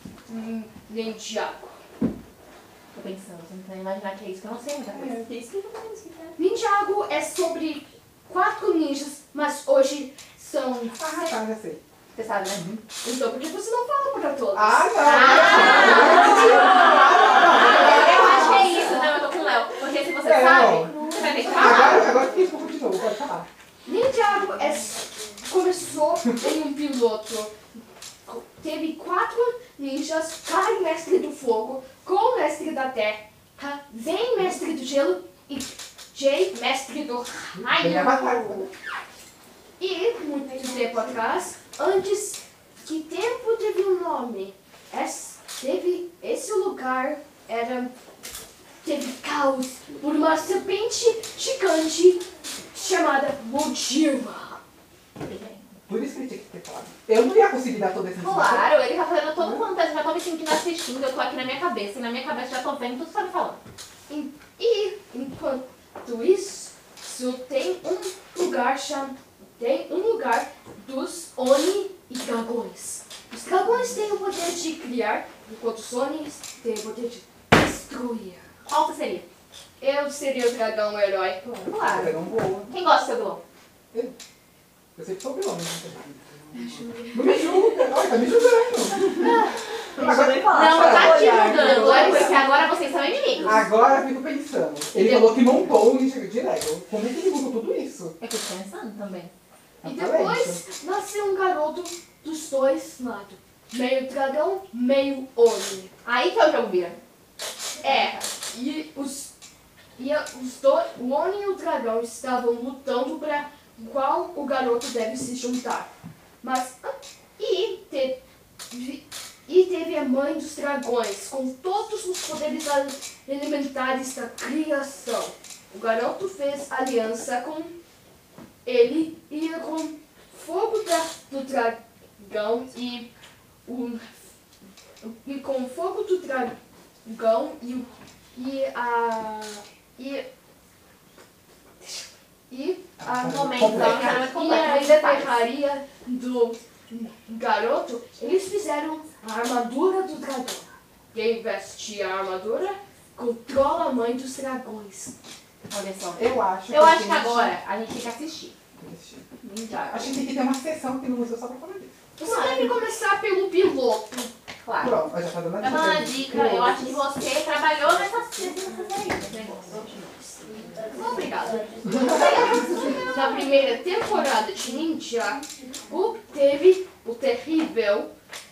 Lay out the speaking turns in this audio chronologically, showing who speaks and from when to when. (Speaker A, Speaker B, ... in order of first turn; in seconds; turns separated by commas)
Speaker A: 0.3-1.8, Speaker B: 2.9-5.2, Speaker C: 4.9-6.4, Speaker A: 6.4-11.4, Speaker D: 11.0-11.8, Speaker B: 12.1-12.6, Speaker D: 12.5-12.8, Speaker A: 13.0-19.0, Speaker D: 14.5-18.7, Speaker B: 15.0-16.7, Speaker C: 15.9-16.5, Speaker B: 17.5-22.1, Speaker D: 20.2-21.0, Speaker C: 20.9-22.3, Speaker A: 21.4-22.1, Speaker D: 21.5-23.5, Speaker A: 23.8-27.5, Speaker A: 28.2-38.6, Speaker D: 37.6-38.7, Speaker A: 39.8-47.9, Speaker C: 40.5-41.3, Speaker A: 48.8-54.6, Speaker B: 55.2-55.7, Speaker D: 55.9-58.7, Speaker B: 58.2-63.6, Speaker D: 59.4-59.6, Speaker A: 64.1-78.4, Speaker B: 78.7-79.3, Speaker A: 79.8-81.4, Speaker B: 81.4-83.4, Speaker D: 81.8-82.7, Speaker D: 85.0-86.2, Speaker A: 86.5-87.1, Speaker D: 87.1-89.4, Speaker C: 89.9-92.4, Speaker D: 90.0-91.8, Speaker B: 90.4-93.6, Speaker A: 91.8-92.5, Speaker D: 93.4-98.2, Speaker A: 95.0-95.3, Speaker B: 98.2-99.3, Speaker D: 99.8-100.6, Speaker A: 99.8-105.9, Speaker B: 106.0-107.0, Speaker A: 107.8-109.3, Speaker B: 107.8-108.3, Speaker A: 110.0-115.9, Speaker A: 116.4-118.2, Speaker A: 118.7-127.7, Speaker A: 128.7-133.1, Speaker A: 133.7-134.2, Speaker A: 135.0-140.2, Speaker A: 141.8-155.1, Speaker D: 143.0-144.3, Speaker B: 143.2-145.5, Speaker B: 155.7-158.6, Speaker D: 156.2-157.5, Speaker D: 158.8-159.3, Speaker B: 159.4-160.1, Speaker C: 159.5-160.0, Speaker D: 159.9-161.9, Speaker A: 162.2-164.3, Speaker B: 162.2-162.7, Speaker B: 164.6-165.0, Speaker D: 164.8-167.0, Speaker B: 165.6-170.1, Speaker A: 170.9-178.1, Speaker D: 171.9-172.2, Speaker B: 171.9-173.0